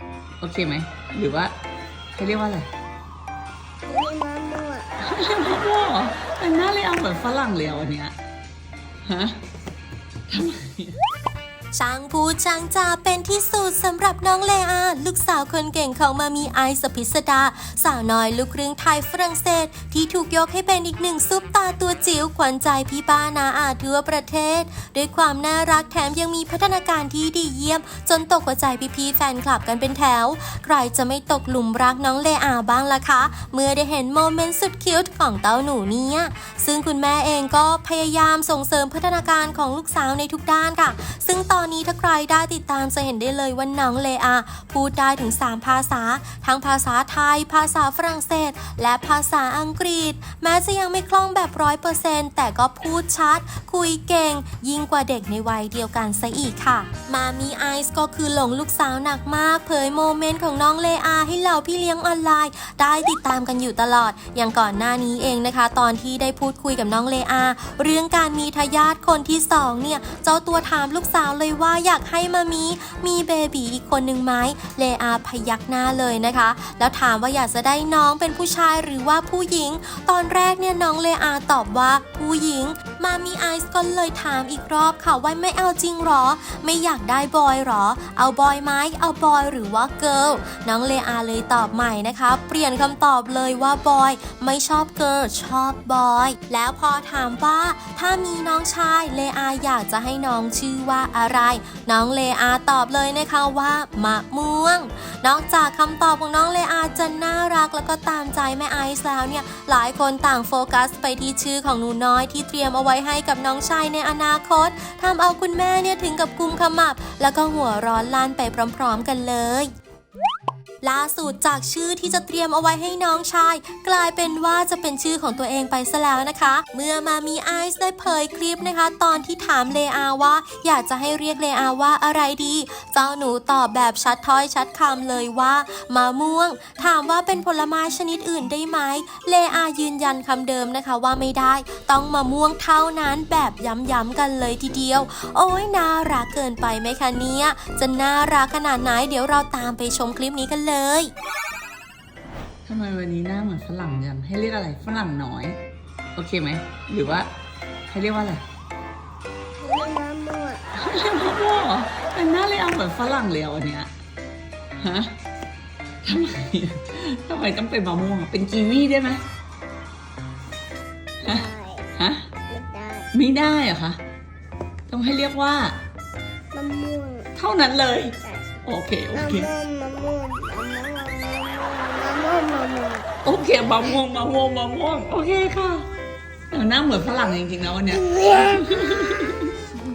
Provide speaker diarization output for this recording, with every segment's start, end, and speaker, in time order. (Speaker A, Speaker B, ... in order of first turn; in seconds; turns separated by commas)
Speaker A: 0.4-1.6, Speaker A: 2.1-2.7, Speaker B: 3.9-4.9, Speaker A: 5.0-8.2, Speaker A: 9.0-9.4, Speaker A: 10.3-11.0, Speaker C: 11.7-119.7, Speaker C: 120.8-151.1, Speaker A: 152.7-155.6, Speaker A: 156.1-157.3, Speaker A: 157.9-158.4, Speaker B: 159.6-160.6, Speaker A: 160.7-163.9, Speaker A: 164.8-165.2, Speaker A: 166.0-169.2, Speaker B: 171.2-171.9, Speaker A: 171.2-172.3, Speaker B: 172.5-173.1, Speaker A: 173.1-174.0, Speaker A: 174.9-175.8, Speaker B: 176.5-177.3, Speaker A: 177.3-179.5, Speaker B: 178.2-178.6, Speaker B: 179.1-183.1, Speaker A: 183.2-185.9, Speaker A: 186.5-189.5, Speaker B: 188.0-188.6